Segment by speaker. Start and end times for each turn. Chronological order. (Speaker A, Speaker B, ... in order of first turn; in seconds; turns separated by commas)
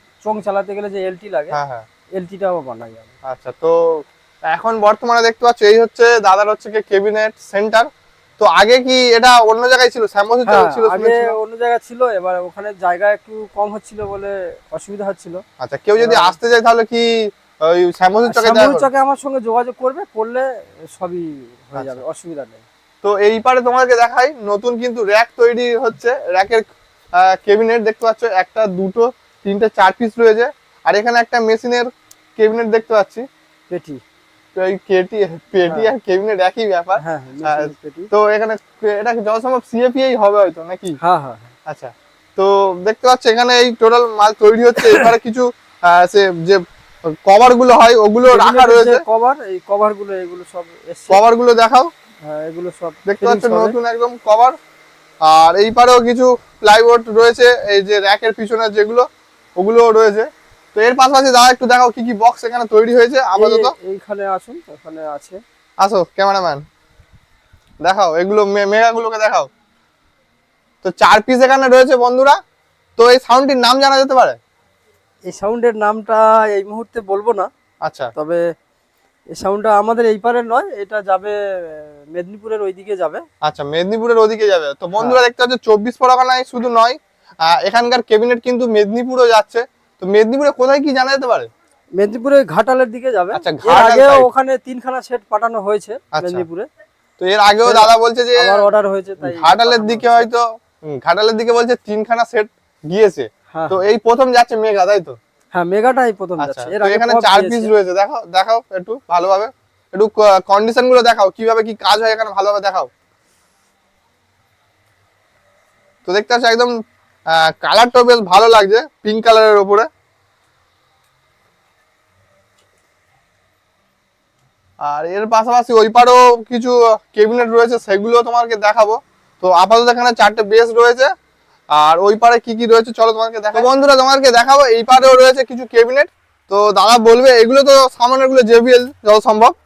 Speaker A: 0.2-1.6, Speaker B: 1.5-1.9, Speaker A: 2.2-3.1, Speaker B: 3.3-7.9, Speaker B: 8.4-11.3, Speaker A: 10.5-15.4, Speaker B: 15.6-18.9, Speaker A: 16.0-16.4, Speaker A: 18.3-22.6, Speaker B: 23.0-26.6, Speaker B: 27.2-33.2, Speaker A: 33.7-34.0, Speaker B: 34.5-41.0, Speaker A: 35.7-35.9, Speaker A: 37.0-38.1, Speaker A: 41.0-41.5, Speaker B: 41.7-49.0, Speaker A: 48.3-51.2, Speaker B: 51.1-51.9, Speaker A: 52.2-53.8, Speaker B: 53.1-54.6, Speaker B: 55.2-59.1, Speaker B: 59.6-63.7, Speaker A: 63.4-65.4, Speaker B: 65.8-66.6, Speaker B: 67.8-69.5, Speaker B: 70.8-72.4, Speaker B: 73.0-74.4, Speaker A: 75.3-77.5, Speaker B: 77.8-78.1, Speaker A: 78.2-78.4, Speaker A: 79.3-83.2, Speaker B: 83.4-91.5, Speaker A: 92.0-96.7, Speaker B: 93.3-94.3, Speaker B: 96.1-96.5, Speaker B: 97.2-98.7, Speaker A: 97.7-100.3, Speaker B: 99.2-105.2, Speaker A: 103.5-103.8, Speaker A: 105.5-107.7, Speaker B: 106.4-112.9, Speaker B: 116.1-116.7, Speaker B: 117.3-119.9, Speaker B: 124.9-131.1, Speaker B: 131.7-139.6